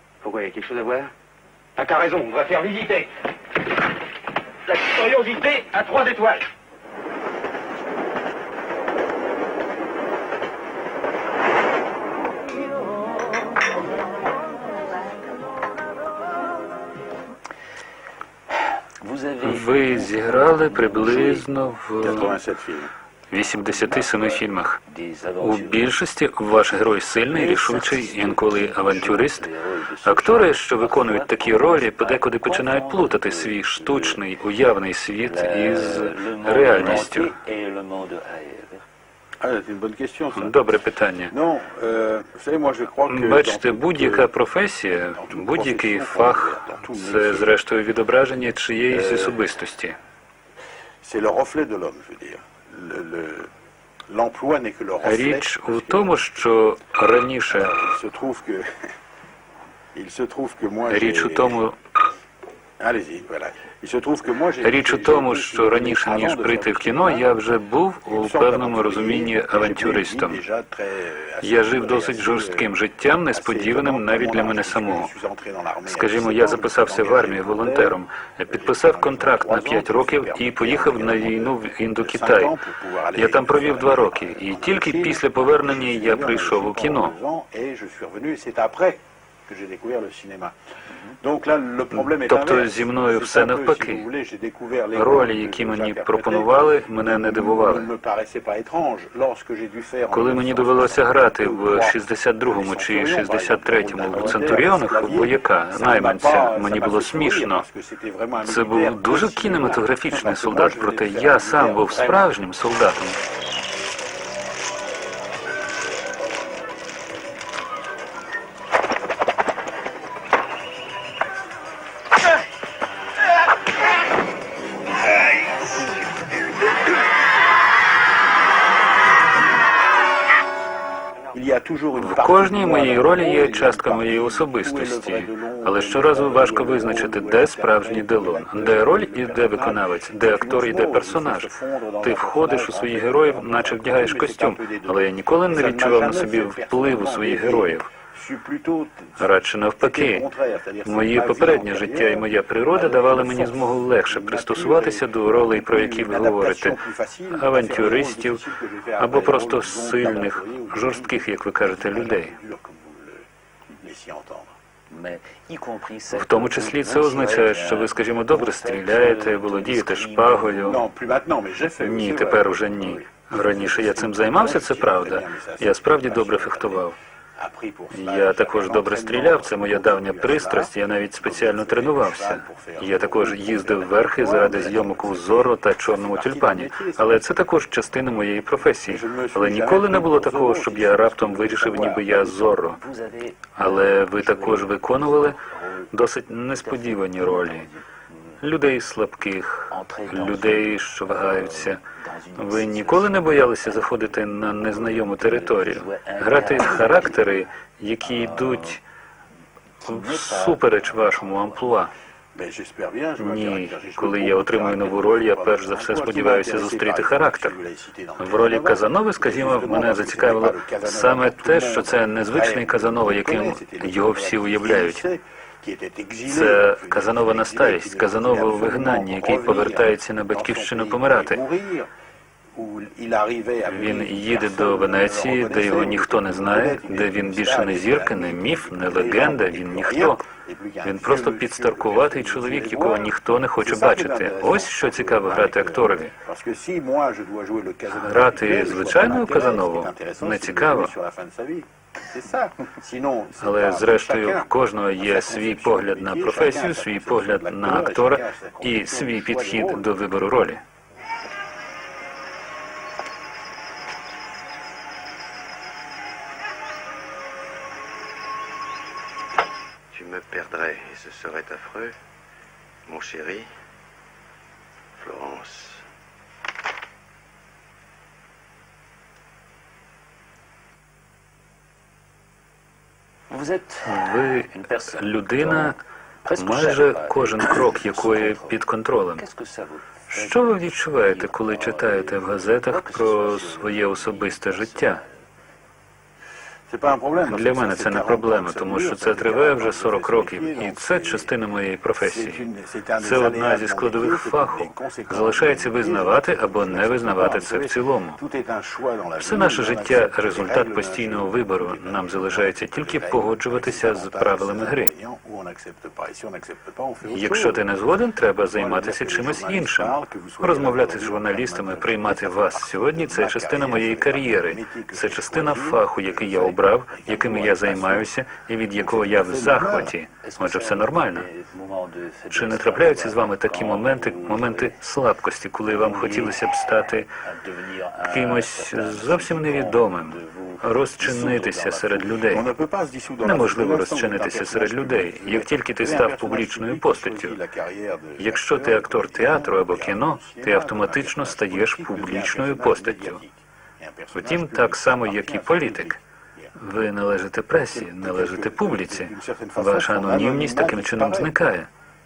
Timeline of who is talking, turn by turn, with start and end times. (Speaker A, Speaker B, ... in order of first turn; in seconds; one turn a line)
Speaker A: 0.2-1.1
Speaker A: 1.8-3.1
Speaker A: 4.7-6.5
Speaker B: 19.0-21.5
Speaker C: 19.4-22.4
Speaker D: 22.0-22.9
Speaker C: 23.3-24.8
Speaker B: 23.7-26.0
Speaker C: 25.4-29.5
Speaker B: 27.3-34.2
Speaker C: 30.0-37.4
Speaker B: 35.2-38.8
Speaker D: 39.4-40.6
Speaker C: 40.3-41.4
Speaker D: 41.3-44.3
Speaker C: 43.1-50.0
Speaker D: 45.1-47.5
Speaker D: 51.0-53.5
Speaker D: 54.1-56.3
Speaker C: 55.0-57.8
Speaker D: 57.5-58.9
Speaker D: 59.9-61.6
Speaker C: 60.9-61.8
Speaker D: 62.8-67.3
Speaker C: 64.6-70.4
Speaker D: 68.0-72.7
Speaker C: 71.4-75.1
Speaker D: 73.3-78.0
Speaker C: 75.9-82.6
Speaker D: 78.5-90.5
Speaker C: 83.2-87.2
Speaker D: 91.1-112.4
Speaker C: 92.0-94.1
Speaker C: 95.0-97.9
Speaker C: 100.1-107.7
Speaker C: 108.4-113.2
Speaker D: 131.3-149.2
Speaker C: 132.0-147.9
Speaker C: 149.2-150.3
Speaker D: 149.8-163.3
Speaker C: 150.8-158.5
Speaker C: 159.0-162.4
Speaker D: 163.8-164.5
Speaker B: 164.9-170.8
Speaker C: 166.1-170.8
Speaker D: 170.7-187.6
Speaker C: 171.8-177.0
Speaker C: 177.9-192.8
Speaker D: 188.9-192.6
Speaker B: 192.6-195.9
Speaker C: 193.6-197.7
Speaker B: 196.6-197.8
Speaker C: 198.4-201.8
Speaker B: 199.7-207.4
Speaker C: 202.4-208.8
Speaker B: 208.0-208.8
Speaker B: 209.8-211.8
Speaker C: 209.8-211.9
Speaker D: 212.3-231.9
Speaker C: 213.2-217.6
Speaker C: 218.2-225.1
Speaker C: 226.3-231.4
Speaker D: 232.6-259.9
Speaker C: 233.7-240.2
Speaker C: 240.8-246.2
Speaker C: 247.9-250.9
Speaker C: 253.4-260.6
Speaker E: 269.9-272.0
Speaker E: 272.9-273.5
Speaker E: 275.0-275.9
Speaker B: 283.3-288.6
Speaker C: 283.9-285.8
Speaker C: 286.4-289.2
Speaker B: 289.1-295.1
Speaker C: 290.1-295.0
Speaker D: 296.7-301.3
Speaker C: 297.2-302.4
Speaker D: 302.0-317.7
Speaker C: 303.0-308.2
Speaker C: 309.2-314.9
Speaker C: 317.1-331.3
Speaker D: 318.5-328.1
Speaker D: 328.8-329.9
Speaker B: 330.2-334.8
Speaker C: 332.3-337.1
Speaker B: 335.7-336.6
Speaker B: 337.2-342.2
Speaker C: 338.1-342.5
Speaker D: 342.2-356.5
Speaker C: 343.2-347.4
Speaker C: 348.2-353.2
Speaker C: 354.1-356.0
Speaker C: 356.6-361.7
Speaker D: 357.7-361.4